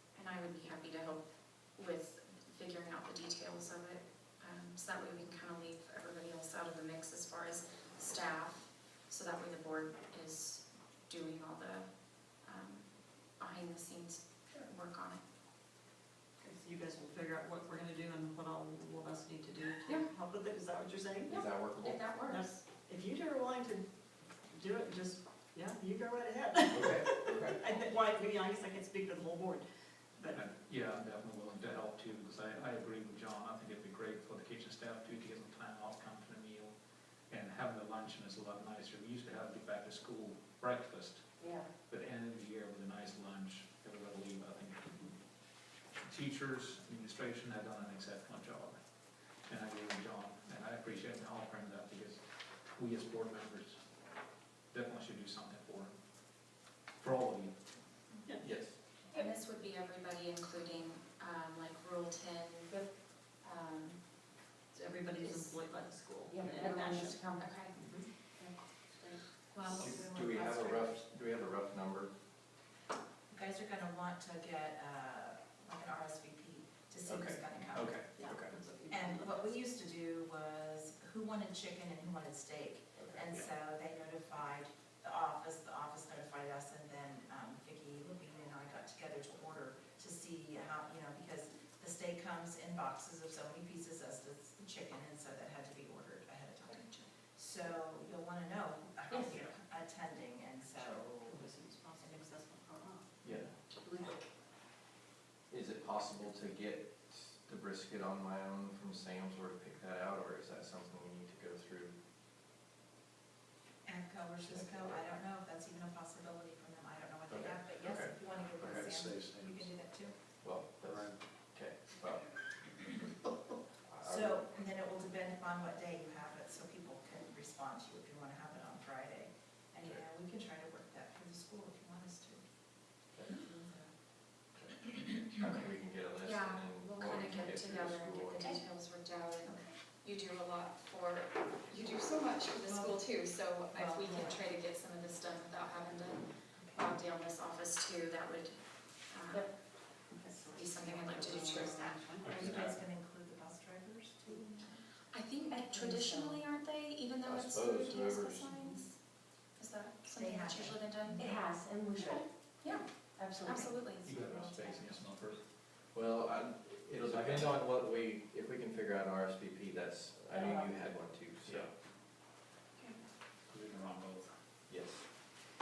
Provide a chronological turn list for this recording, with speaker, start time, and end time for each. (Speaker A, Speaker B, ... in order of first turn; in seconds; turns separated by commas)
Speaker A: 0.1-15.2, Speaker B: 16.4-21.4, Speaker C: 21.3-22.1, Speaker A: 21.3-22.4, Speaker B: 22.2-23.9, Speaker B: 24.5-29.6, Speaker C: 26.7-27.8, Speaker B: 30.1-30.4, Speaker D: 30.3-36.8, Speaker D: 37.3-41.3, Speaker E: 41.4-41.7, Speaker D: 41.9-45.0, Speaker D: 46.0-48.8, Speaker D: 49.5-52.2, Speaker D: 52.7-53.8, Speaker D: 54.7-55.9, Speaker D: 57.0-57.6, Speaker C: 58.4-58.8, Speaker A: 59.1-64.0, Speaker B: 64.7-68.1, Speaker A: 65.2-65.5, Speaker E: 66.3-67.7, Speaker A: 67.4-67.9, Speaker E: 68.3-69.2, Speaker F: 69.5-70.9, Speaker C: 69.7-72.1, Speaker F: 73.3-78.0, Speaker C: 77.0-78.5, Speaker D: 77.7-78.4, Speaker B: 78.2-79.5, Speaker F: 78.9-101.4, Speaker C: 83.0-83.3, Speaker A: 96.6-97.1, Speaker E: 99.1-99.3, Speaker B: 100.7-103.1, Speaker C: 103.2-103.5, Speaker B: 103.8-104.1, Speaker C: 105.5-111.9, Speaker F: 113.8-120.2, Speaker C: 114.4-115.0, Speaker C: 117.3-118.2, Speaker D: 118.6-119.0, Speaker C: 120.4-122.3, Speaker C: 123.8-124.4, Speaker F: 124.0-132.4, Speaker F: 133.3-133.9, Speaker C: 135.3-138.6, Speaker A: 136.2-149.5, Speaker F: 139.4-139.7, Speaker F: 142.6-143.0, Speaker F: 143.7-144.5, Speaker F: 146.6-146.9, Speaker B: 150.1-152.6, Speaker A: 150.5-152.0, Speaker D: 152.2-152.8, Speaker F: 152.2-154.8, Speaker A: 155.1-159.0, Speaker E: 155.5-156.2, Speaker C: 157.2-158.7, Speaker A: 159.6-161.3, Speaker F: 160.1-161.3, Speaker E: 161.1-162.2, Speaker A: 162.6-164.2, Speaker E: 163.2-163.9, Speaker D: 163.9-165.4, Speaker F: 164.2-164.7, Speaker C: 165.9-171.7, Speaker D: 167.0-167.5, Speaker E: 170.3-170.8, Speaker D: 173.5-174.3, Speaker C: 174.7-175.0